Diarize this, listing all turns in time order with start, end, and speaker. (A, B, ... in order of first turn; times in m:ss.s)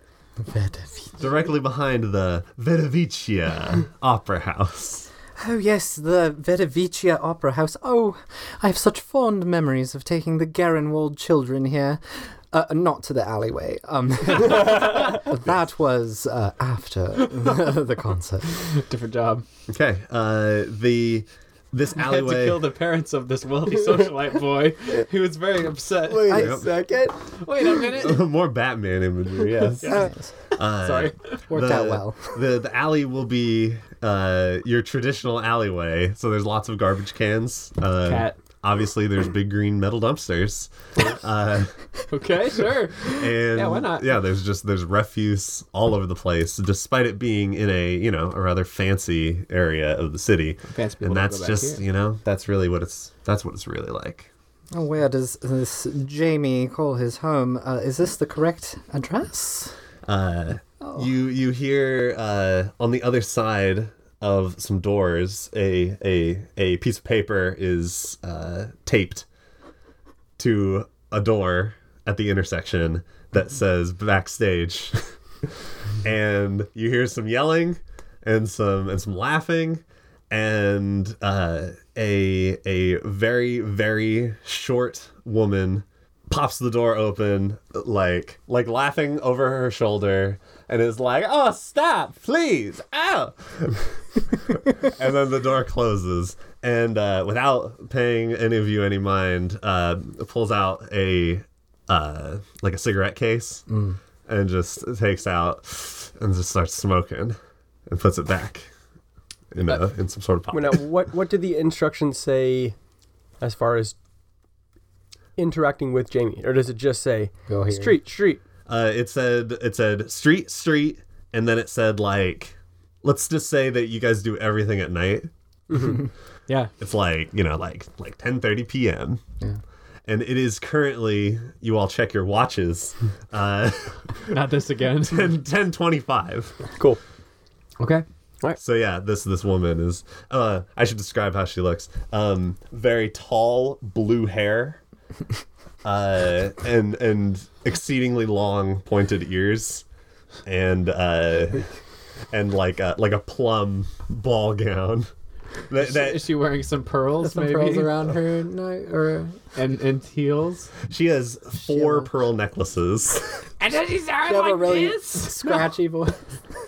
0:00.4-0:01.2 A
0:01.2-0:05.1 B
0:05.4-0:18.5 A
0:17.2-0:17.6 C
0:18.4-0:19.4 C
0:19.7-0:22.7 B
0:22.0-0:26.5 C
0:26.1-0:27.2 D
0:26.3-0:26.6 A
0:26.3-0:26.7 B
0:27.3-0:28.2 C
0:28.0-0:41.8 B
0:29.8-0:30.1 C
0:29.9-0:30.3 A
0:30.7-0:31.4 C
0:31.5-0:32.4 A
0:38.0-0:38.4 C
0:42.1-0:44.1 C
0:43.1-0:54.3 B
0:50.7-0:51.8 C
0:54.7-0:59.8 A
1:00.1-1:09.3 B
1:10.4-1:15.0 B
1:16.0-1:43.7 B
1:43.7-1:44.0 A
1:44.3-1:47.4 B
1:47.9-1:48.7 B
1:49.5-1:50.8 B
1:50.5-1:52.8 D
1:53.4-1:54.0 D
1:55.4-1:58.4 D
1:57.5-1:58.0 A
1:58.7-2:05.3 B
2:05.7-2:06.0 D
2:06.8-2:09.2 B
2:10.1-2:14.3 B
2:14.3-2:15.3 C
2:15.1-2:16.7 B
2:17.8-2:18.0 C
2:18.6-2:24.8 B
2:25.8-2:29.8 B
2:30.4-2:31.7 B
2:32.3-2:35.1 B
2:35.7-2:36.2 B
2:35.8-2:38.1 C
2:37.2-2:39.4 A
2:39.6-2:40.7 C
2:40.9-2:43.5 B
2:41.6-2:42.1 A
2:43.6-2:45.6 C
2:44.3-2:46.2 A